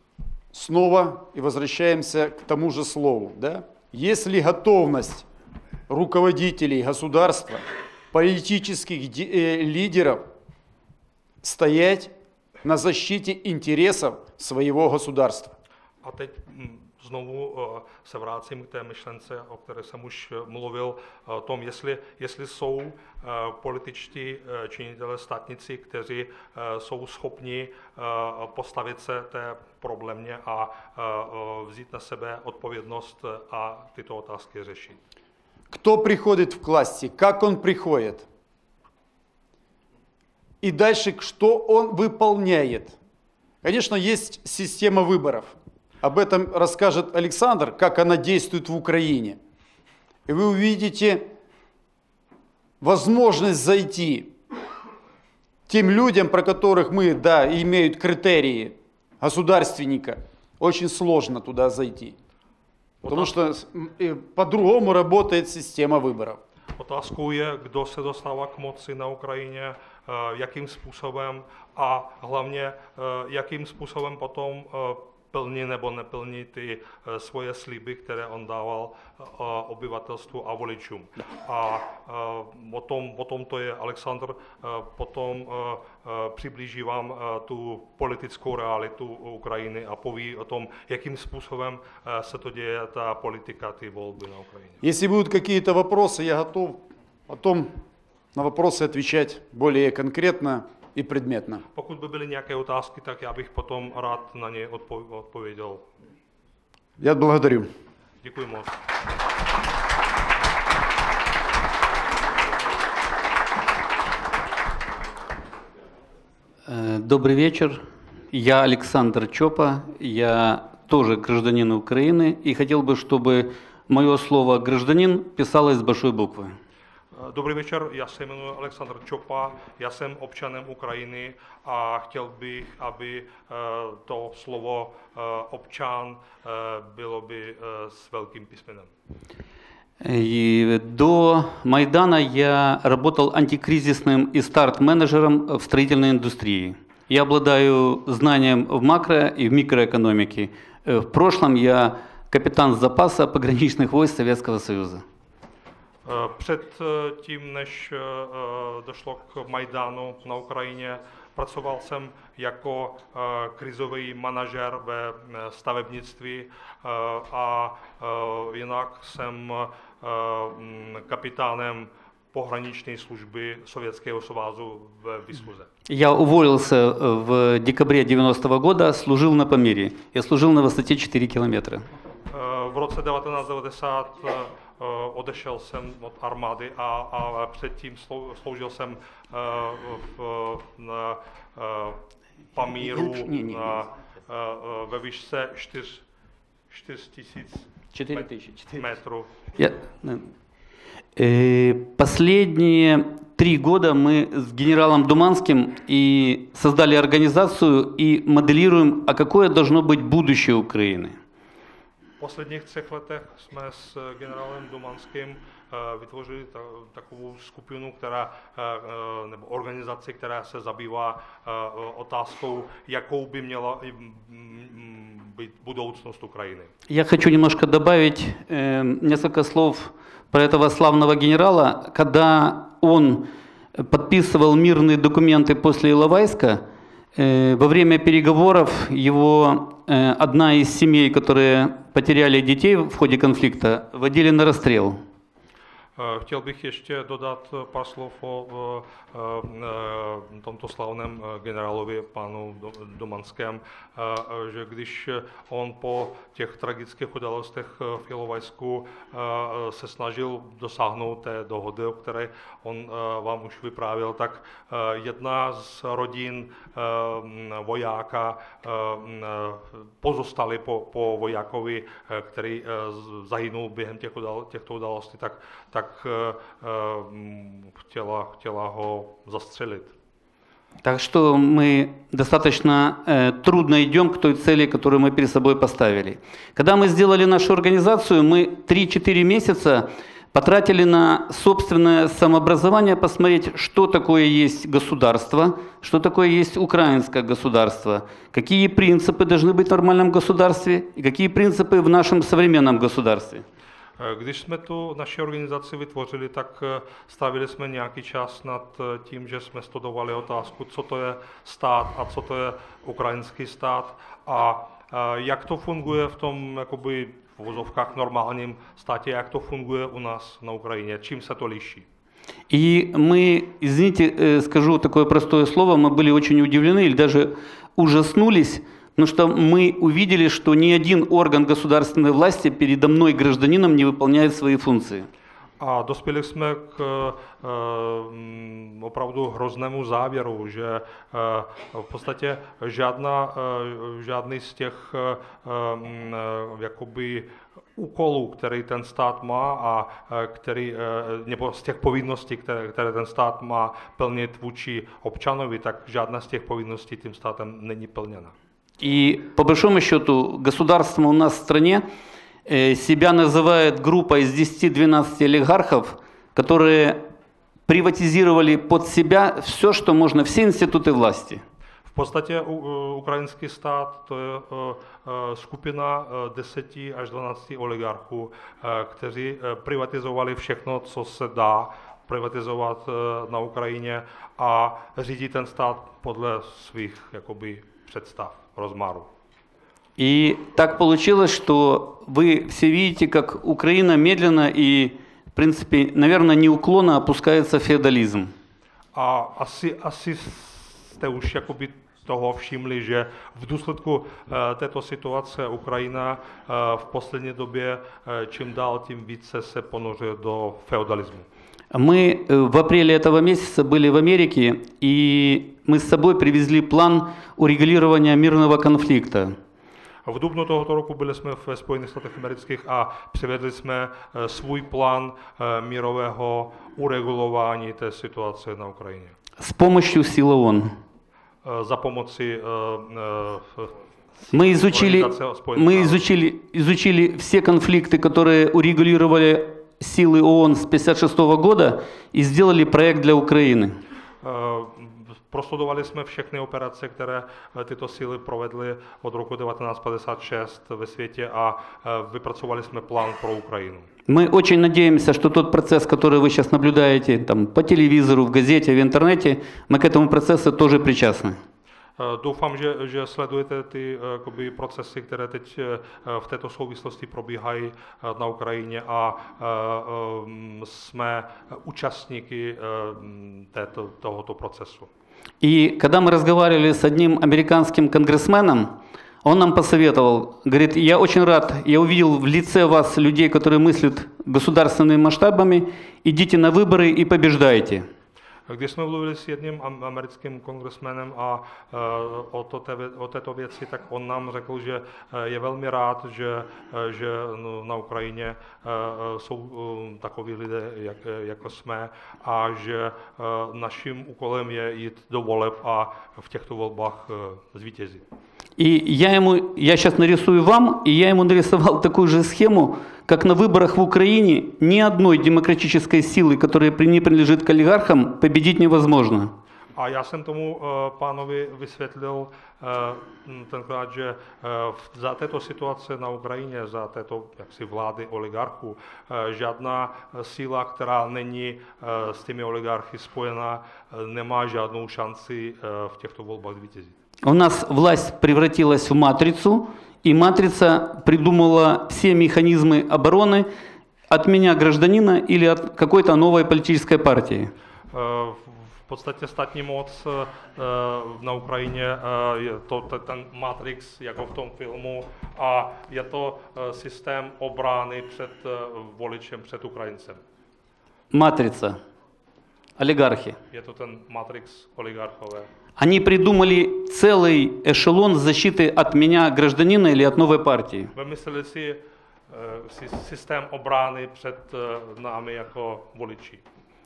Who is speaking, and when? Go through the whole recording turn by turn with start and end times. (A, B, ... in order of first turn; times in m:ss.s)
0:00.5-0:05.2 A
0:05.9-0:10.2 A
0:11.4-0:12.1 A
0:12.6-0:15.5 A
0:16.0-0:35.0 B
0:35.7-0:38.2 A
0:40.6-0:43.0 A
0:43.6-0:49.4 A
0:50.3-0:51.3 A
0:52.8-0:54.3 A
0:55.7-1:02.2 A
1:03.0-1:06.4 A
1:06.7-1:34.8 B
1:34.8-1:37.8 A
1:38.3-1:41.6 A
1:41.7-1:45.8 B
1:47.0-1:47.7 A
1:48.2-1:48.8 B
1:56.6-2:06.6 C
2:07.1-2:18.9 B
2:20.0-2:35.0 C
2:36.0-2:55.7 B
2:55.9-3:01.9 C
3:02.3-3:12.0 B
3:12.5-3:16.0 B
3:12.7-3:13.8 C
3:16.7-3:19.3 B
3:17.9-3:18.9 C
3:19.6-3:20.3 C
3:21.2-3:31.2 C
3:32.2-3:46.7 B
3:46.9-4:05.0 C
4:06.0-4:39.9 B
4:40.8-5:03.4 C
5:04.0-5:21.8 B
5:22.5-5:35.1 C
5:35.6-5:58.3 B
5:58.8-6:01.9 C
6:02.4-6:07.0 C
6:07.7-6:11.4 C
6:11.8-6:29.1 B
6:30.0-6:38.3 C
6:38.9-6:51.3 B
6:51.7-6:59.4 C
7:00.0-7:09.2 B
7:09.4-7:10.8 C
7:11.4-7:16.0 B
7:14.3-7:23.8 C
7:24.2-7:33.9 B
7:34.1-7:41.4 C
7:42.0-7:54.9 B
7:55.4-8:07.9 C
8:08.5-8:28.0 B
8:28.6-8:39.3 C
8:39.7-8:57.0 B
8:57.2-9:03.5 C
9:04.1-9:07.5 C
9:07.9-9:20.2 B
9:21.1-9:21.8 C
9:22.8-9:23.4 C
9:23.5-9:25.5 B
9:25.8-9:30.9 C
9:30.9-9:36.4 B